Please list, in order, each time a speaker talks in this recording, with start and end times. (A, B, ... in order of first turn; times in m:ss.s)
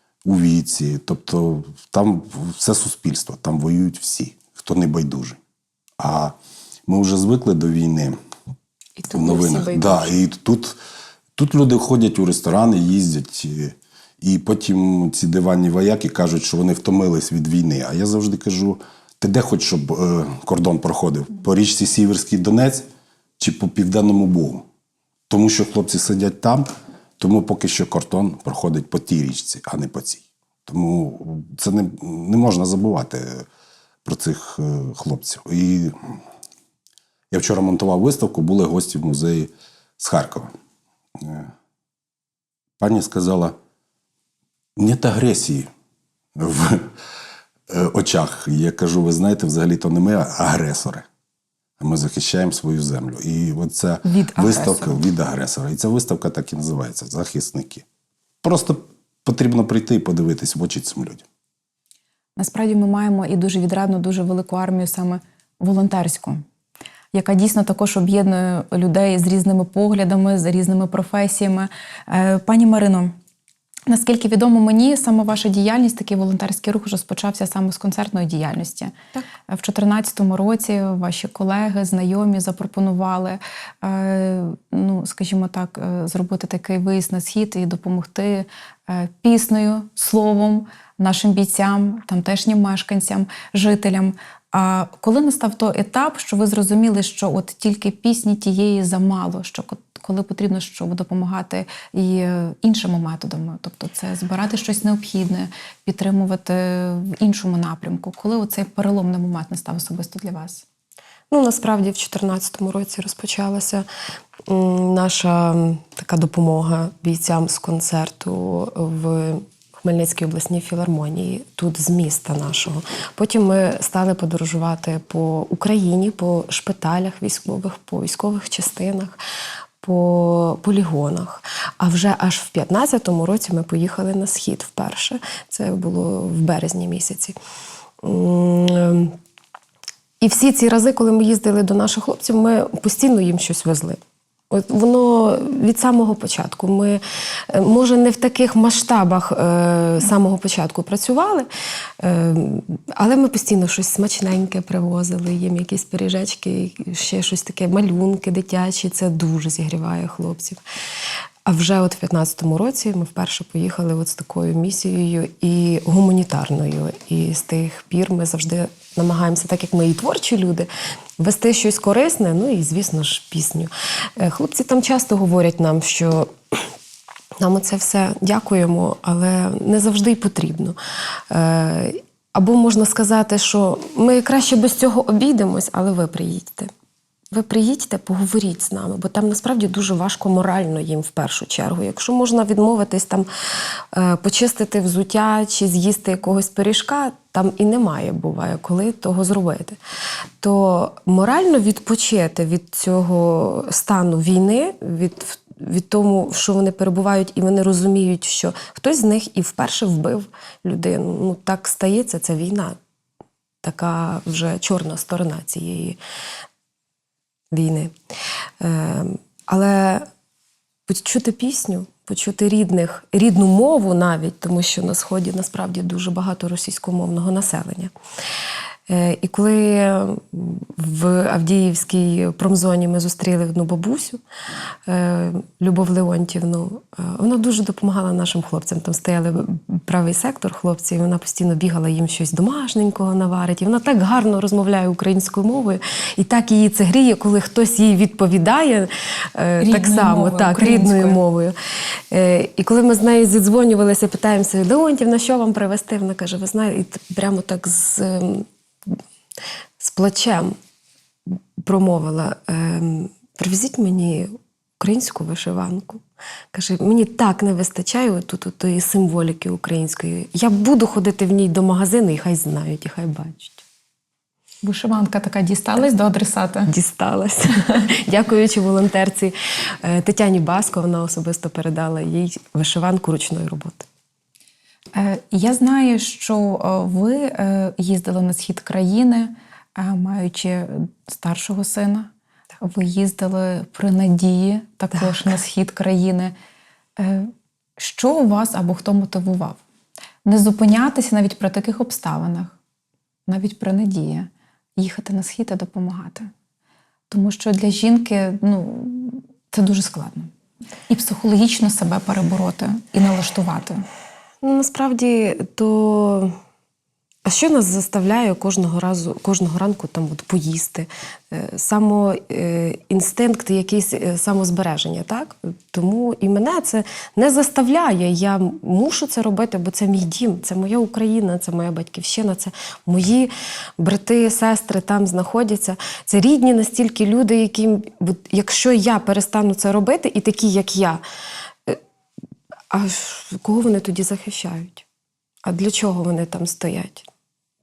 0:00.2-0:05.4 A
0:06.0-0:06.3 A
0:06.9-0:08.2 A
0:09.0-0:10.2 B
0:09.1-0:10.8 A
0:11.4-0:22.8 A
0:23.4-0:24.6 A
0:25.3-0:26.7 A
0:27.2-0:33.4 A
0:34.0-0:36.2 A
0:37.3-0:40.5 A
0:41.2-0:41.5 A
0:42.8-0:43.6 A
0:44.8-0:45.7 A
0:46.4-0:46.9 A
0:47.7-0:51.1 A
0:51.8-0:57.8 A
0:54.2-0:54.8 B
0:54.4-0:54.8 C
0:58.4-1:01.2 A
1:02.4-1:06.4 C
1:07.1-1:13.1 C
1:13.9-1:18.9 C
1:19.5-1:50.6 C
1:51.3-1:53.8 B
1:54.5-2:09.2 B
2:09.8-2:17.4 B
2:18.0-2:19.2 B
2:20.2-2:31.5 B
2:32.0-2:40.6 B
2:41.4-2:56.7 B
2:57.4-3:00.8 B
3:01.3-3:06.7 B
3:07.3-3:19.8 B
3:20.4-3:32.8 B
3:33.6-3:36.0 B
3:37.5-3:37.9 B
3:38.6-3:40.1 B
3:40.9-3:47.9 B
3:48.9-3:54.2 B
3:54.8-4:11.5 B
4:09.6-4:11.2 C
4:12.1-4:19.0 B
4:19.8-4:20.5 B
4:21.3-4:26.0 B
4:26.5-4:33.6 B
4:34.6-4:36.7 C
4:36.7-4:43.9 B
4:44.9-4:52.1 C
4:52.6-4:56.3 C
4:55.0-4:55.3 B
4:57.0-4:59.6 C
5:00.2-5:02.6 C
5:03.3-5:06.3 C
5:07.1-5:10.3 C
5:10.9-5:13.8 C
5:14.4-5:16.3 B
5:17.2-5:41.0 B
5:42.7-5:44.8 B
5:45.4-5:47.1 B